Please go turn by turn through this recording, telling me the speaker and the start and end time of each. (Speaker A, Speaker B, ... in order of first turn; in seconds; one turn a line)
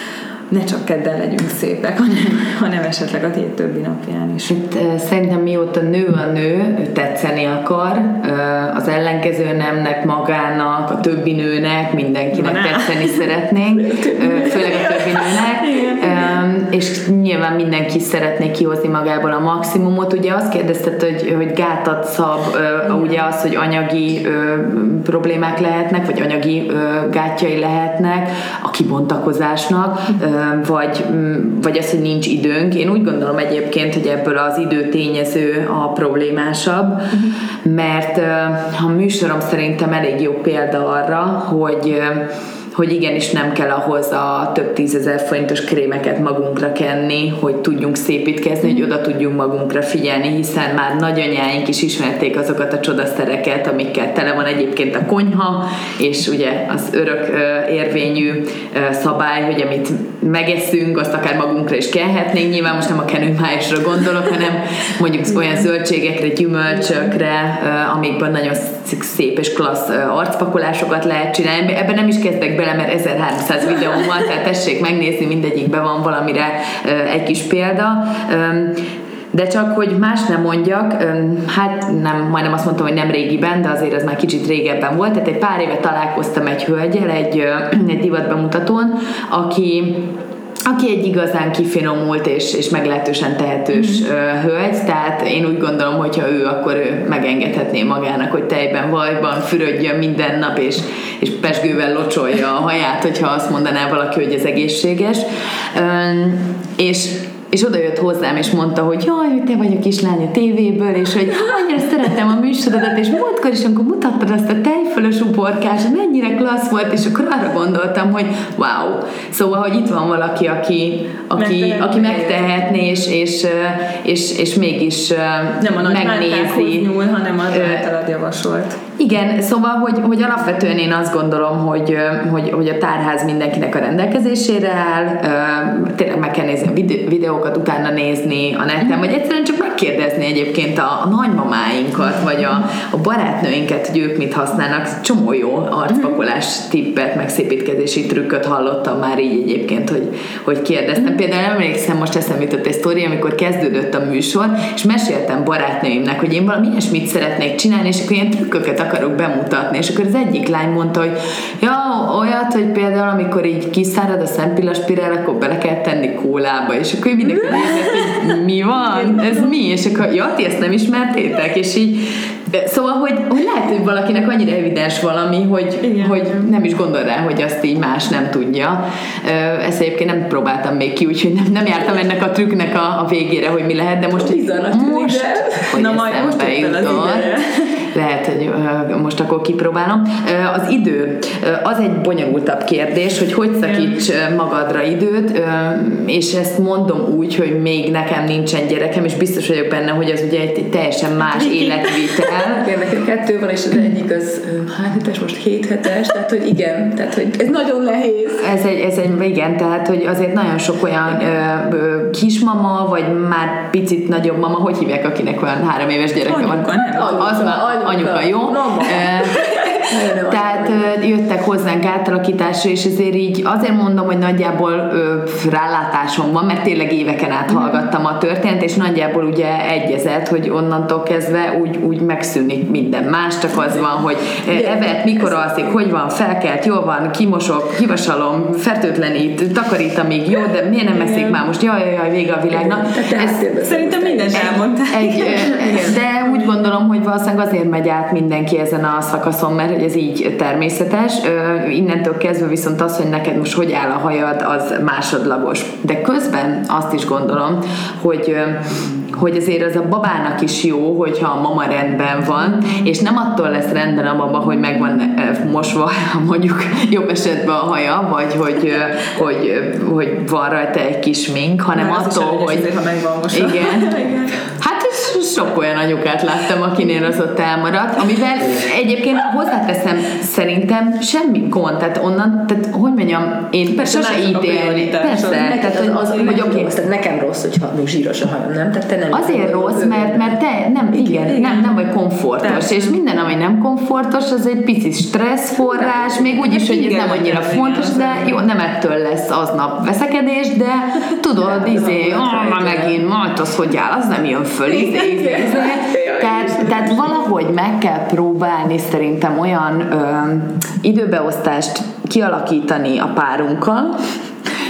Speaker A: 0.5-4.5
Speaker B: 4.5-90.1
Speaker A: 12.3-13.2
Speaker C: 13.9-15.0
Speaker A: 14.4-15.0
Speaker A: 15.6-16.1
Speaker B: 90.7-126.9
Speaker A: 121.4-122.4
Speaker A: 125.6-128.8
Speaker B: 127.5-127.8
Speaker B: 129.0-187.3
Speaker A: 168.9-169.5
Speaker A: 175.8-176.5
Speaker C: 184.1-185.7
Speaker A: 185.7-187.8
Speaker B: 187.9-202.7
Speaker A: 201.3-201.9
Speaker C: 202.6-208.5
Speaker B: 208.4-219.4
Speaker A: 216.2-217.3
Speaker C: 216.9-220.9
Speaker B: 220.3-243.4
Speaker C: 234.5-235.2
Speaker A: 240.9-241.4
Speaker C: 242.5-244.6
Speaker A: 243.6-245.9
Speaker B: 244.9-272.7
Speaker C: 245.6-245.9
Speaker A: 271.7-274.4
Speaker B: 273.3-286.7
Speaker A: 283.7-286.3
Speaker C: 285.1-290.3
Speaker B: 289.1-313.9
Speaker C: 290.9-291.2
Speaker A: 291.2-291.7
Speaker A: 292.4-293.0
Speaker A: 296.4-298.3
Speaker C: 301.4-303.0
Speaker C: 304.7-307.1